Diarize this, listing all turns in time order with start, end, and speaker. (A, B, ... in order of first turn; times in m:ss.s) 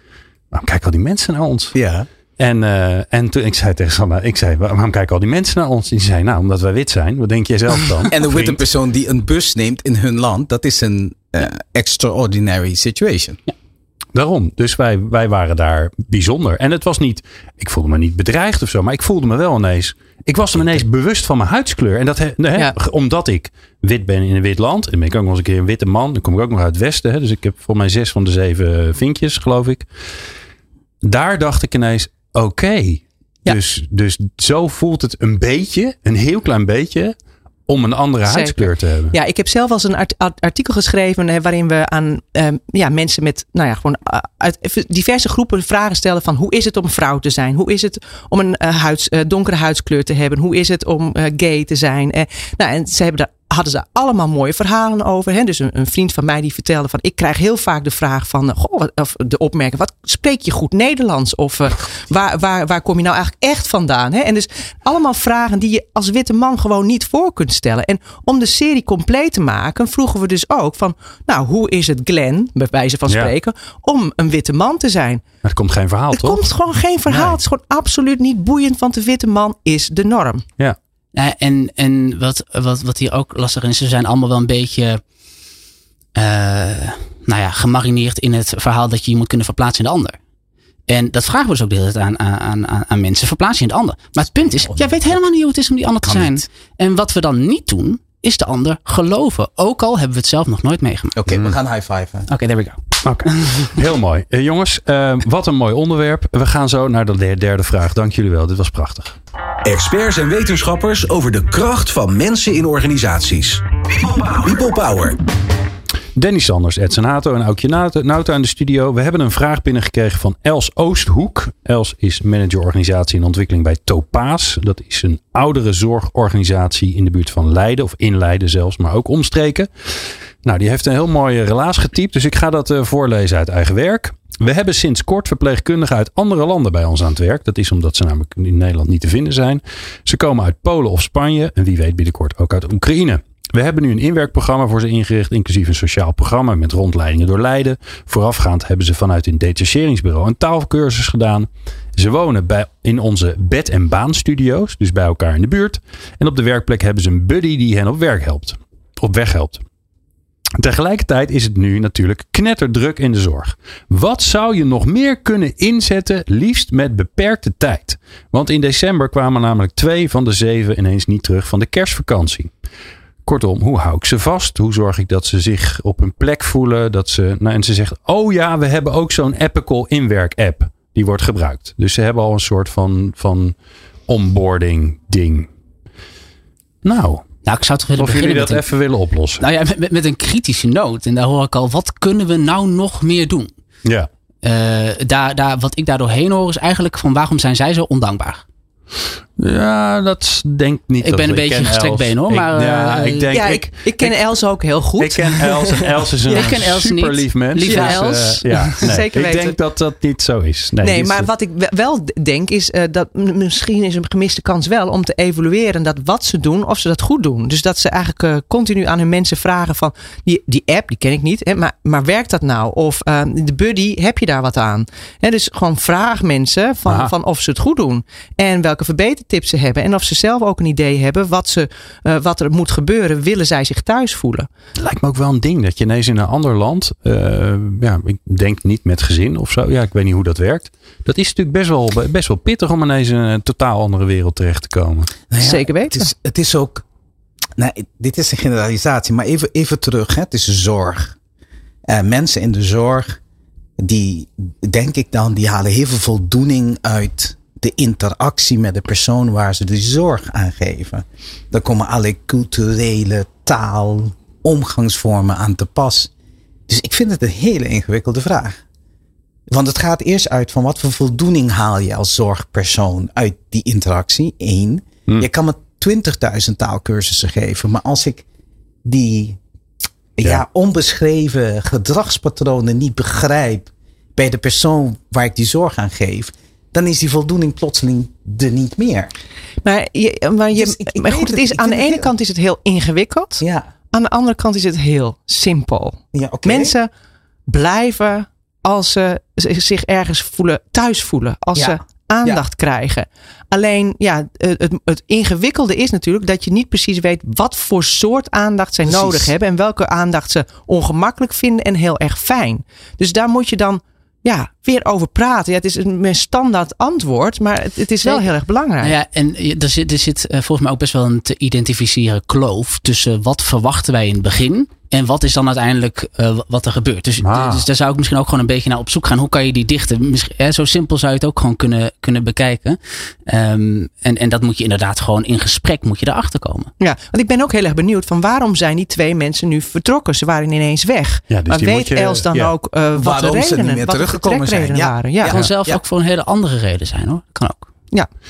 0:00.5-0:01.7 A
0:01.7-0:02.1 B
0:02.4-0:08.6 A
0:08.1-0:13.4 B
0:14.1-0:29.9 A
0:31.0-0:37.1 A
0:37.7-0:39.1 A
0:38.2-1:15.2 C
1:15.4-1:16.4 A
1:16.1-1:20.4 C
1:17.1-1:17.4 A
1:21.1-1:25.0 D
1:26.1-1:30.2 D
1:30.9-1:41.2 D
1:34.4-1:35.2 B
1:36.0-1:36.4 B
1:41.2-1:42.3 B
1:41.3-1:41.5 A
1:42.3-1:43.8 D
1:43.0-1:49.2 A
1:49.6-1:55.2 E
1:56.1-2:09.7 A
2:10.4-2:39.6 A
2:40.6-2:52.5 A
2:53.2-3:03.5 A
3:04.1-3:05.5 A
3:06.8-3:07.3 A
3:07.4-3:08.6 D
3:08.0-3:09.4 A
3:09.4-3:13.5 D
3:14.4-3:18.4 D
3:19.4-3:24.1 A
3:21.0-3:23.3 D
3:23.3-3:26.6 C
3:25.0-3:31.3 A
3:26.2-3:28.9 D
3:27.6-3:29.6 C
3:30.8-3:54.5 C
3:46.8-3:47.1 A
3:54.8-4:05.1 A
4:05.3-4:06.8 B
4:05.4-4:06.1 C
4:07.6-4:11.2 B
4:11.9-4:13.2 B
4:13.8-4:26.1 B
4:26.7-4:28.6 B
4:29.5-4:38.2 B
4:38.8-4:39.4 B
4:40.2-4:49.1 B
4:49.6-4:56.9 C
4:50.5-4:52.1 B
4:53.4-4:53.7 B
4:56.1-4:56.7 B
4:57.5-5:18.9 C
5:01.6-5:02.4 B
5:08.8-5:09.3 B
5:18.8-5:36.7 D
5:27.2-5:27.6 A
5:36.8-5:45.3 C
5:41.3-5:42.5 A
5:43.0-5:45.8 B
5:45.2-5:47.7 D